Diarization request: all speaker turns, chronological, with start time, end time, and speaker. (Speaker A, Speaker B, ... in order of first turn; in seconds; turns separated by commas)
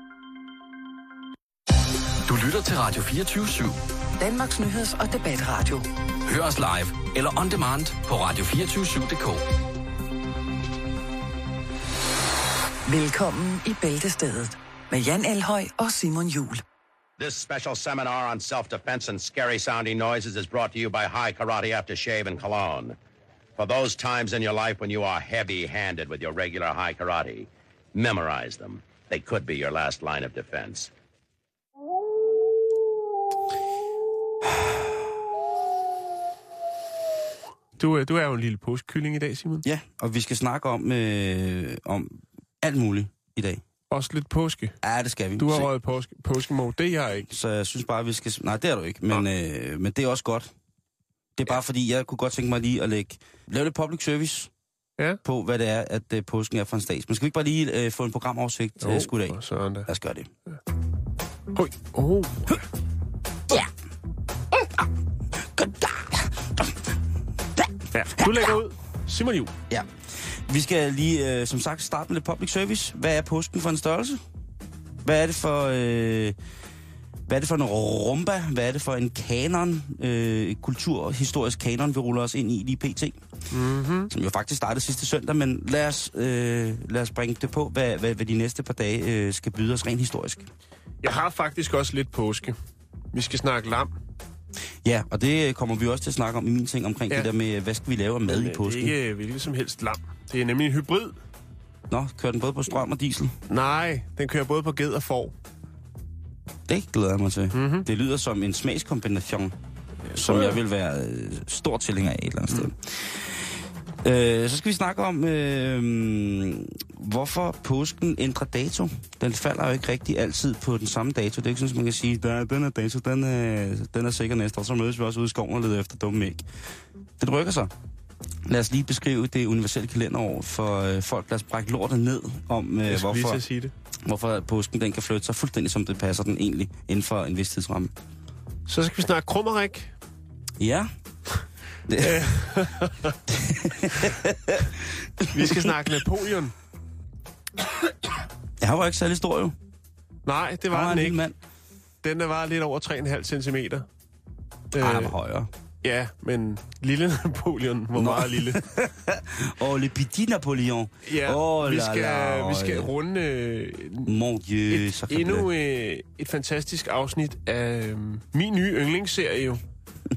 Speaker A: 2.3-3.8, Speaker B: 4.2-5.9, Speaker A: 6.3-9.4, Speaker B: 12.9-16.6, Speaker C: 17.2-23.0, Speaker C: 23.6-30.9, Speaker D: 34.5-34.7, Speaker E: 37.8-39.6, Speaker D: 39.6-43.6, Speaker E: 43.9-44.8, Speaker D: 44.8-45.7, Speaker E: 45.4-47.3, Speaker D: 47.3-50.5, Speaker D: 51.4-54.5, Speaker D: 55.2-60.3, Speaker E: 58.8-59.9, Speaker E: 61.5-62.6, Speaker D: 65.4-66.8, Speaker D: 67.6-68.5, Speaker E: 67.9-69.5, Speaker D: 69.7-74.2, Speaker D: 75.0-76.4, Speaker D: 77.3-83.2, Speaker E: 83.5-84.1, Speaker D: 84.1-90.5, Speaker E: 91.0-92.6, Speaker E: 93.1-93.9, Speaker D: 94.8-99.0, Speaker E: 98.3-101.2, Speaker D: 101.9-103.3, Speaker E: 103.5-105.3, Speaker D: 106.7-109.6, Speaker E: 107.5-107.9, Speaker E: 110.0-110.6, Speaker D: 110.1-126.4, Speaker D: 127.2-127.7, Speaker D: 128.4-133.4, Speaker E: 132.9-133.7, Speaker D: 134.1-137.9, Speaker E: 138.7-140.0, Speaker D: 140.6-140.9, Speaker D: 141.9-142.6, Speaker E: 142.0-143.2, Speaker D: 143.3-145.7, Speaker E: 145.3-146.5, Speaker D: 148.6-149.6, Speaker E: 150.3-151.2, Speaker D: 150.7-151.4, Speaker E: 152.0-153.9, Speaker E: 154.7-155.2, Speaker D: 154.8-155.5, Speaker E: 155.8-158.6, Speaker D: 157.9-162.9, Speaker E: 161.0-164.1, Speaker D: 164.1-165.5, Speaker E: 164.7-169.6